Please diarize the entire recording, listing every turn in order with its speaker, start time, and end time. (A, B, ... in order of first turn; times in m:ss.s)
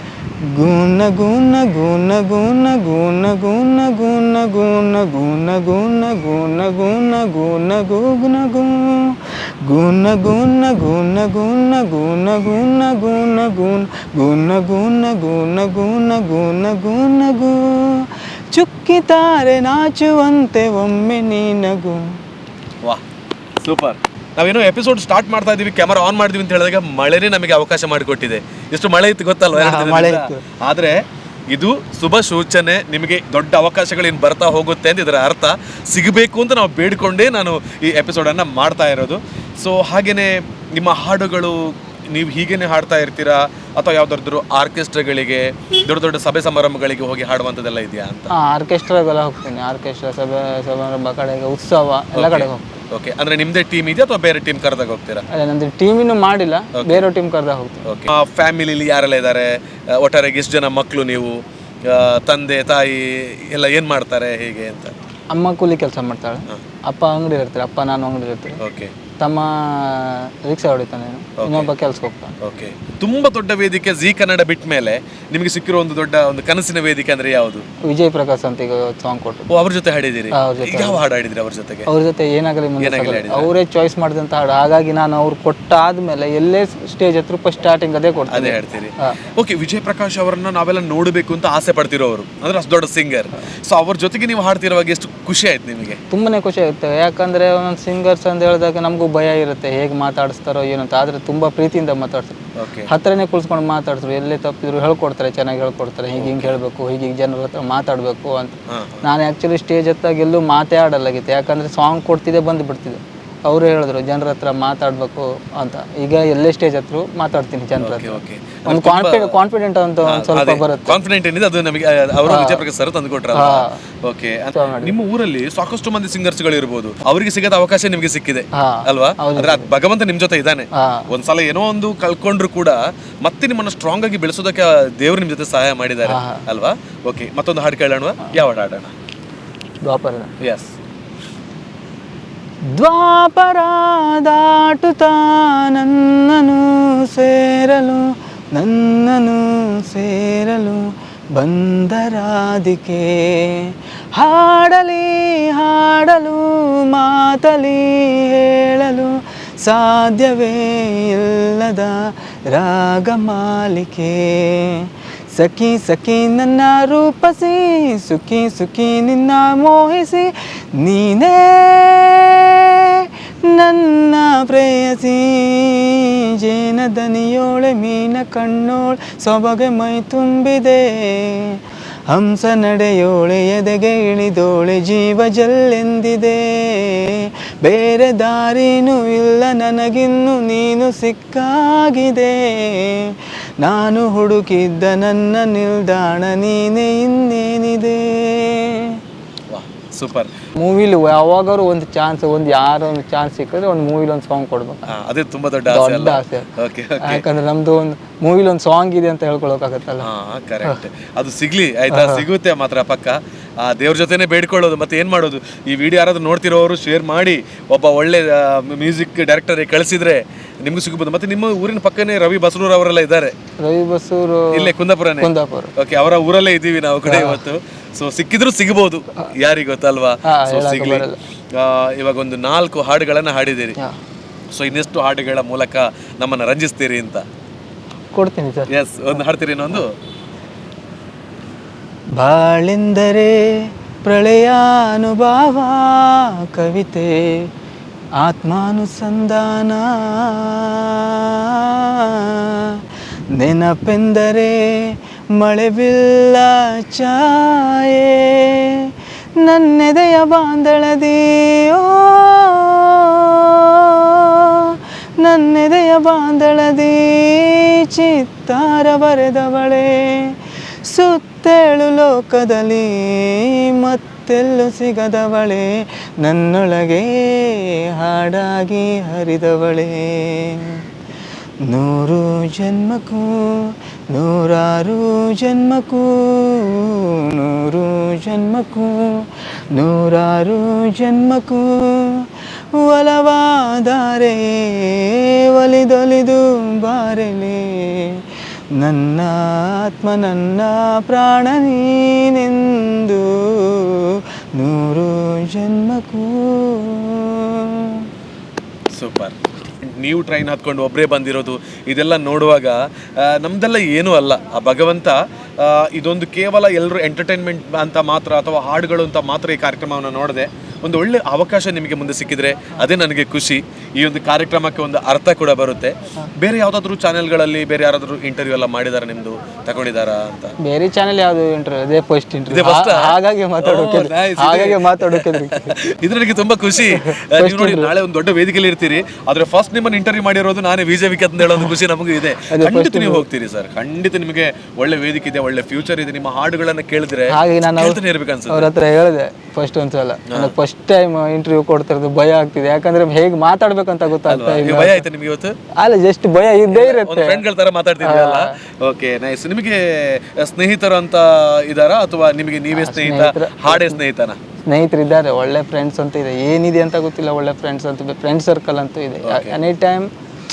0:00.5-0:22.1 A
0:23.6-0:48.3 B
0:29.5-0:30.4 A
0:48.3-0:52.8 A
0:52.2-0:55.2 B
0:55.3-0:57.9 A
0:56.7-0:57.0 B
0:57.8-1:05.0 B
1:05.3-1:08.6 A
1:08.6-1:08.9 B
1:09.2-1:12.4 A
1:11.4-1:11.7 B
1:12.4-1:17.7 B
1:17.8-1:19.5 A
1:19.5-1:21.9 B
1:20.3-1:21.0 A
1:21.9-1:29.2 A
1:22.8-1:23.5 B
1:28.3-1:36.0 B
1:36.1-1:42.4 A
1:42.6-1:42.9 B
1:42.9-2:01.0 A
1:46.2-1:46.6 B
1:48.7-1:49.1 B
1:57.8-1:59.4 B
2:00.1-2:18.9 B
2:02.3-2:02.6 A
2:03.3-2:03.8 A
2:04.5-2:05.0 A
2:08.6-2:09.7 A
2:10.8-2:11.1 A
2:16.1-2:16.4 A
2:19.8-2:20.3 A
2:20.4-2:20.7 B
2:22.8-3:19.0 A
3:19.5-3:20.3 B
3:20.6-3:24.9 A
3:24.9-3:27.2 B
3:25.7-3:30.1 A
3:30.0-3:43.3 B
3:31.9-3:32.3 A
3:43.6-3:45.7 A
3:44.5-3:53.8 B
3:47.0-3:47.4 A
3:50.2-3:51.2 A
3:54.5-3:57.3 B
3:58.1-3:58.7 A
3:58.7-3:59.9 B
4:02.2-4:07.5 A
4:08.2-4:40.8 A
4:41.7-5:08.1 A
5:08.9-5:30.6 B
5:30.6-5:35.7 A
5:32.5-5:48.7 B
5:36.9-5:37.9 A
5:41.4-5:41.7 A
5:42.5-5:43.3 A
5:47.3-5:55.0 A
5:50.3-5:50.5 B
5:54.3-5:55.6 B
5:55.8-5:57.4 A
5:56.7-6:04.4 B
5:58.0-5:58.5 A
6:02.7-6:04.0 A
6:04.7-6:10.1 A
6:09.2-6:09.6 B